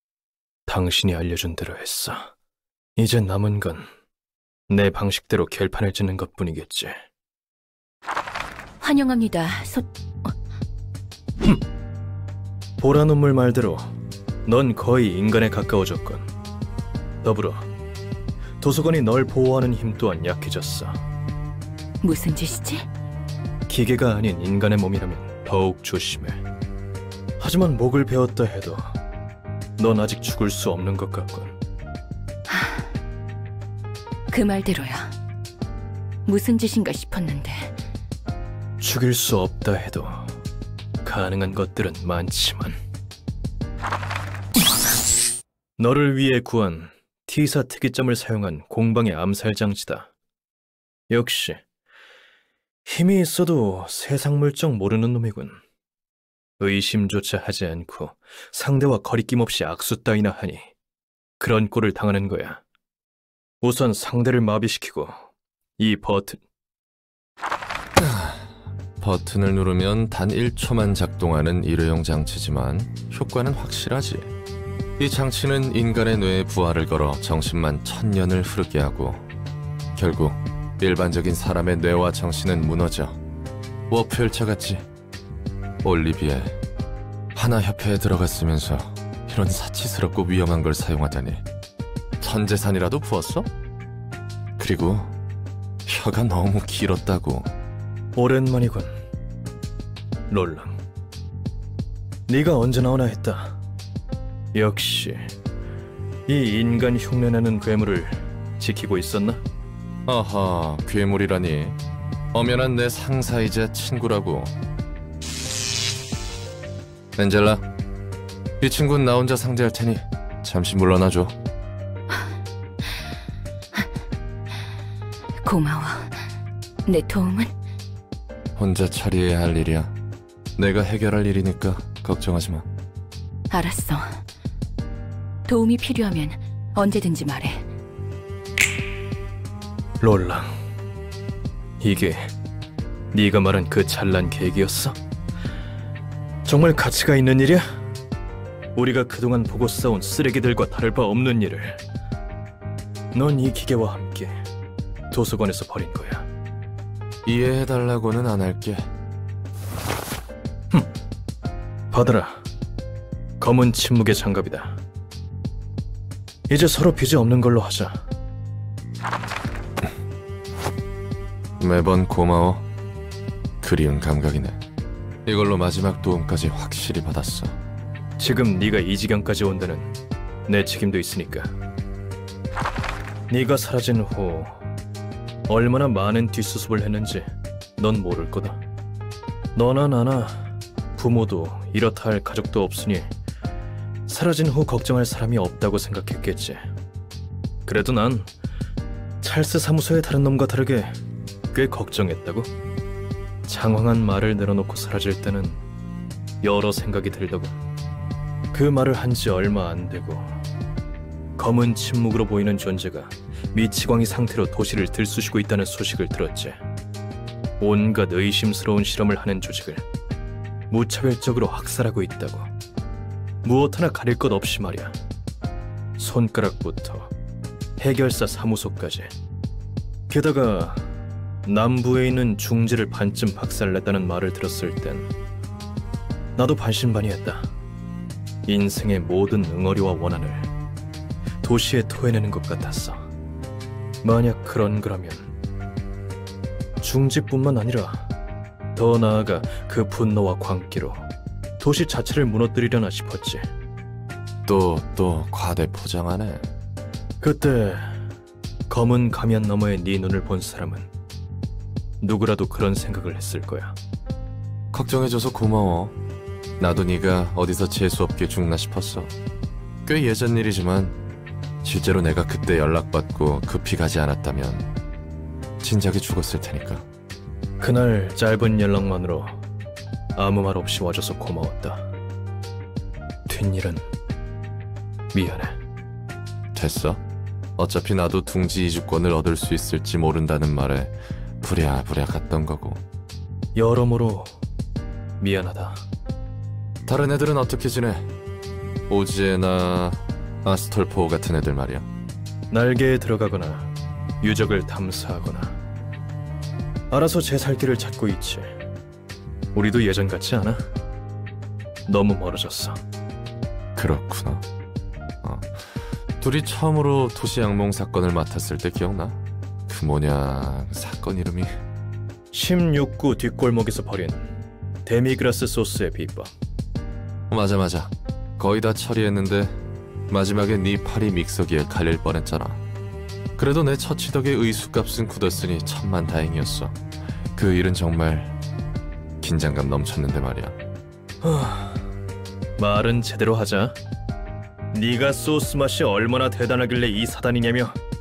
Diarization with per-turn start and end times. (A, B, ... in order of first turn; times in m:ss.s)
0:00.7-0:02.3 A
0:03.0-0:03.9 A
0:04.7-0:07.0 A
0:08.8-0:10.3 B
0:12.8-0:13.9 A
0:14.4-0:16.3 A
0:17.2-0:17.7 A
0:18.6-0:21.0 A
0:22.0-0:22.9 B
0:23.7-0:26.4 A
0:27.4-0:29.0 A
0:29.8-0:31.6 A
0:32.5-0:32.9 B
0:34.3-0:35.2 B
0:36.3-0:37.8 B
0:38.8-0:40.3 A
0:41.0-0:42.8 A
0:45.8-0:50.1 A
0:51.1-0:51.6 A
0:52.9-0:55.6 A
0:56.6-1:00.7 A
1:01.4-1:02.6 A
1:03.6-1:05.3 A
1:05.8-1:06.4 A
1:08.0-1:14.3 C
1:15.0-1:19.3 C
1:20.0-1:23.2 C
1:23.9-1:24.9 C
1:25.8-1:26.6 C
1:27.4-1:31.4 C
1:32.2-1:33.5 C
1:34.6-1:35.1 C
1:35.9-1:37.5 C
1:38.2-1:38.9 A
1:40.3-1:40.8 A
1:42.3-1:43.6 A
1:44.5-1:45.3 A
1:46.3-1:49.4 A
1:50.1-1:51.8 C
1:52.3-1:54.6 C
1:57.2-1:57.6 C
1:58.6-2:01.4 C
2:05.4-2:06.2 B
2:06.9-2:07.5 B
2:08.6-2:09.9 C
2:10.6-2:12.7 C
2:13.5-2:14.2 B
2:15.5-2:17.7 B
2:20.0-2:20.5 A
2:21.8-2:22.3 A
2:23.1-2:25.0 A
2:26.4-2:27.6 A
2:28.8-2:31.8 A
2:33.1-2:34.4 A
2:35.1-2:36.3 A
2:37.2-2:38.9 C
2:41.9-2:42.4 A
2:43.4-2:44.8 A
2:46.5-2:48.1 A
2:51.6-2:52.6 C
2:53.6-2:54.6 C
2:55.2-2:57.6 C
2:58.2-2:59.9 A
3:00.5-3:01.5 A
3:03.3-3:04.6 A
3:05.5-3:08.6 A
3:09.6-3:13.1 A
3:14.1-3:16.6 A
3:17.7-3:18.3 A
3:19.2-3:21.0 A
3:21.5-3:22.5 A
3:23.5-3:25.6 A
3:26.4-3:27.6 A
3:28.5-3:30.4 A
3:31.4-3:36.6 A
3:37.6-3:39.8 A
3:40.7-3:42.5 A
3:43.4-3:45.0 A
3:46.0-3:47.1 A
3:47.8-3:49.1 A
3:50.1-3:50.9 A
3:51.4-3:55.1 A
3:56.4-3:57.5 A
3:58.5-4:00.5 A
4:01.4-4:03.1 A
4:04.0-4:05.3 A
4:06.8-4:08.1 A
4:08.8-4:11.1 A
4:11.6-4:13.4 A
4:14.5-4:16.5 C
4:17.2-4:18.0 A
4:18.7-4:20.9 A
4:22.0-4:23.8 A
4:24.7-4:26.0 C
4:26.6-4:29.1 C
4:29.8-4:31.0 C
4:31.6-4:34.7 C
4:35.6-4:36.9 C
4:37.6-4:39.4 A
4:40.2-4:41.9 A
4:43.3-4:43.9 A
4:45.1-4:45.6 A
4:46.5-4:47.0 C
4:47.6-4:52.8 C
4:53.6-4:54.4 A
4:55.2-4:55.9 A
4:56.9-4:58.1 C
4:58.9-5:01.9 C
5:02.5-5:05.6 A
5:06.9-5:08.5 A
5:09.5-5:10.6 A
5:11.9-5:12.8 A
5:13.8-5:14.4 C
5:15.2-5:21.6 C
5:22.3-5:24.3 A
5:24.8-5:26.3 A
5:27.3-5:32.6 C
5:33.4-5:36.8 C
5:37.4-5:38.4 C
5:39.2-5:40.6 C
5:41.2-5:41.9 A
5:42.6-5:43.8 A
5:44.7-5:47.8 A